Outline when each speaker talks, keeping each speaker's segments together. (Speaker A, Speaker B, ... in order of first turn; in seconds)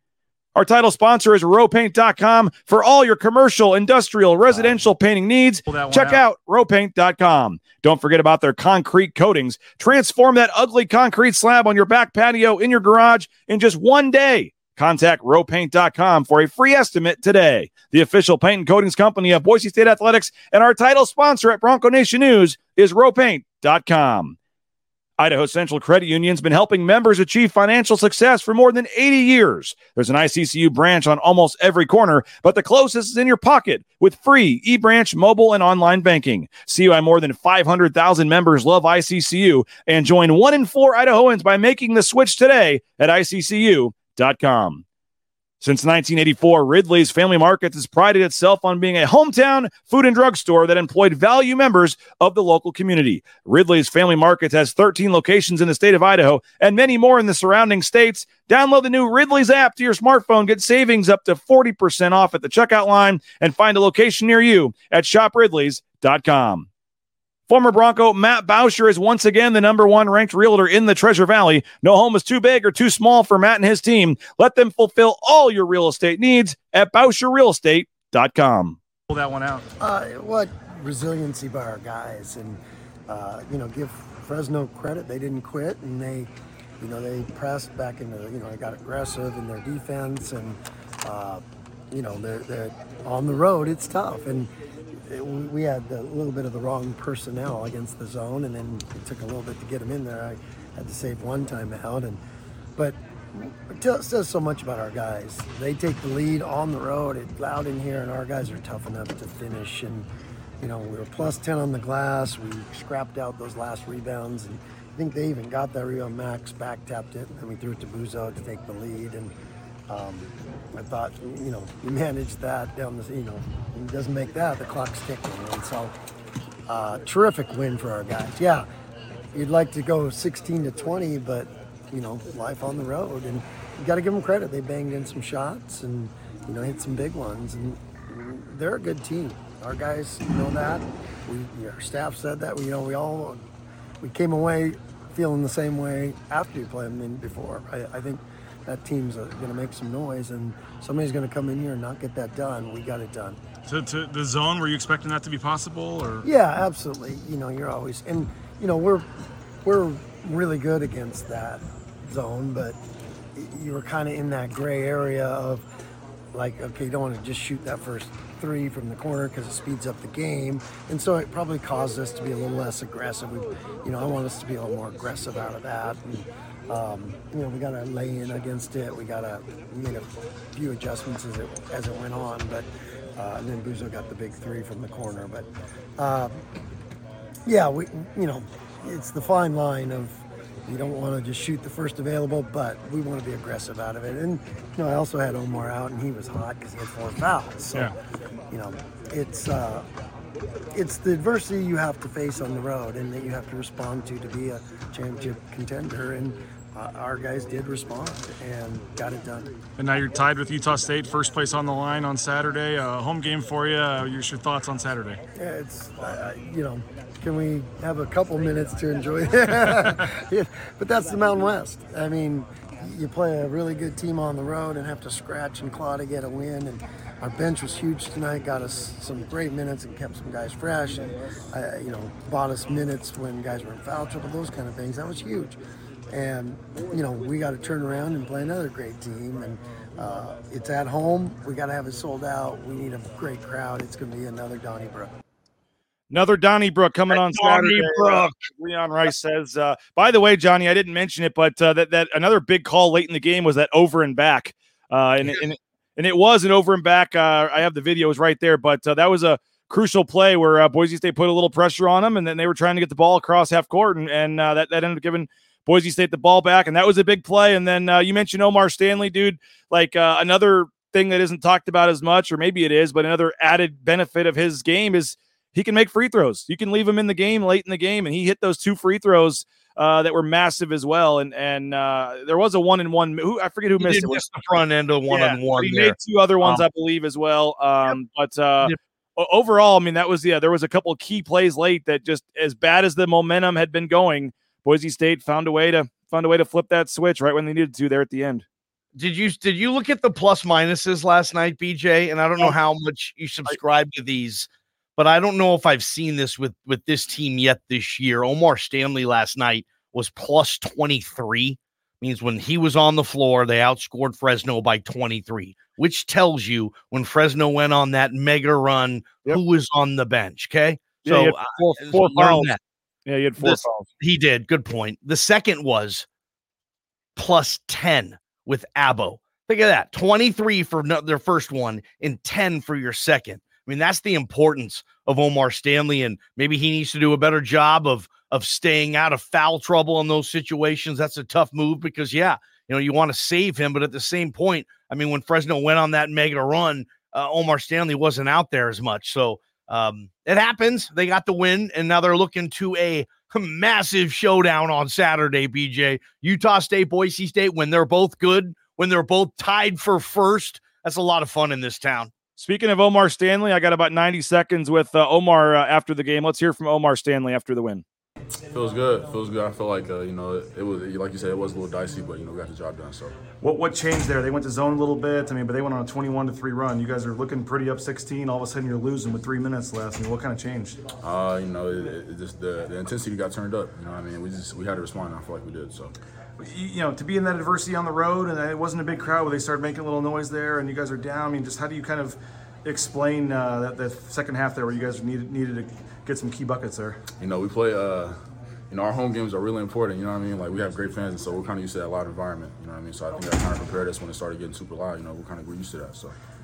Speaker A: 0.6-24.4, 25.2-44.8, 45.6-66.7, 67.5-78.8, 246.1-284.2, 285.1-298.4, 321.1-323.9, 362.4-367.8
Speaker B: 4.5-4.8, 5.7-6.2, 79.1-79.7, 153.7-156.3, 209.8-215.2, 373.4-380.8, 386.4-397.0
Speaker C: 79.8-102.2, 102.8-110.1, 110.6-119.3, 119.9-125.9, 126.7-128.7, 129.3-143.5, 144.0-153.4, 156.2-159.1, 159.7-162.8, 163.3-165.7, 166.3-186.4, 187.4-197.9, 198.5-199.9, 200.7-209.5, 215.3-235.6, 236.1-245.1
Speaker D: 247.1-248.3, 283.8-286.6, 299.0-322.6, 323.4-326.1, 327.2-362.1
Speaker E: 368.5-373.2, 381.0-385.9, 397.2-398.1, 398.7-406.1